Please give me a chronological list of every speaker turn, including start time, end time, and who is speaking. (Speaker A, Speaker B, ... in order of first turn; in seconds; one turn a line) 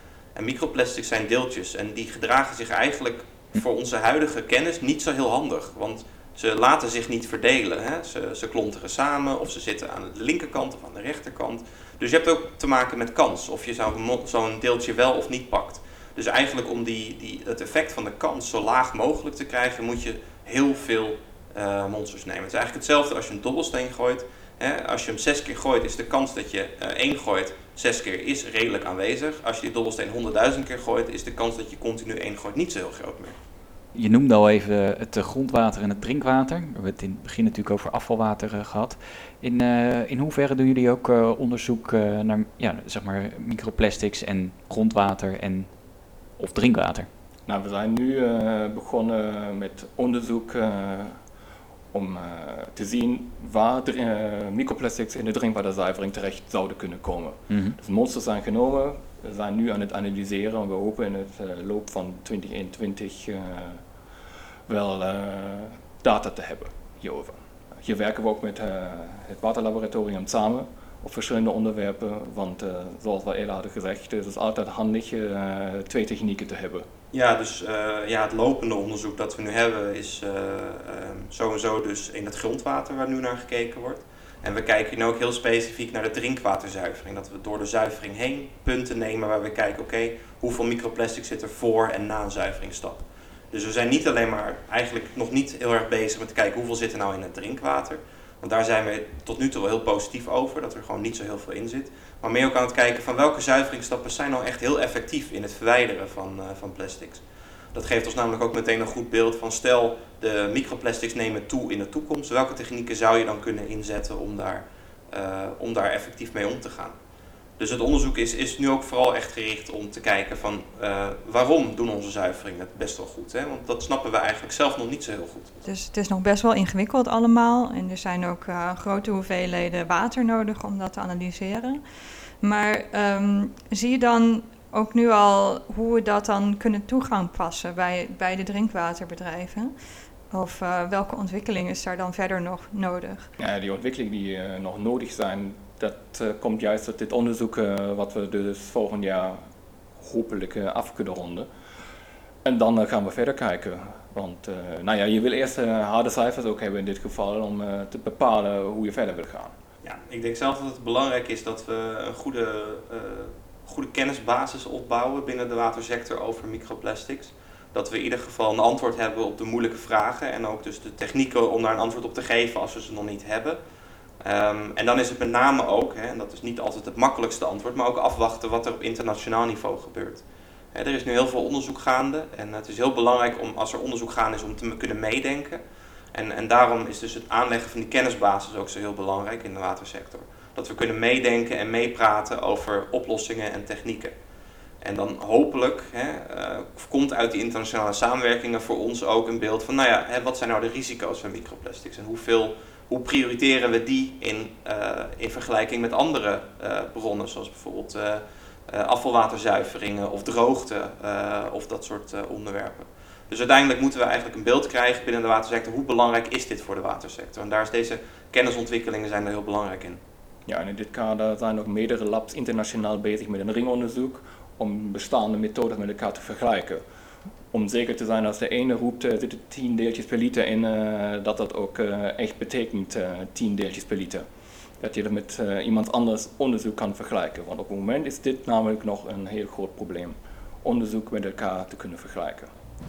Speaker A: 0.3-33.4
Speaker B: 33.9-45.7
Speaker B: 46.4-47.1
Speaker C: 47.5-51.1
Speaker C: 51.9-63.8
Speaker B: 57.5-57.8
Speaker C: 64.7-76.8
Speaker A: 77.1-107.2
Speaker A: 107.7-116.9
Speaker A: 117.6-125.6
Speaker D: 125.6-131.8
Speaker D: 132.4-139.7
Speaker D: 140.3-143.3
Speaker C: 143.4-149.4
Speaker C: 150.0-151.5
Speaker C: 152.4-159.5
Speaker A: 159.8-173.6
Speaker A: 174.2-185.6
Speaker A: 186.1-194.1
Speaker A: 194.8-220.0
Speaker C: 220.4-226.8
Speaker C: 227.5-234.2
Speaker C: 234.8-242.5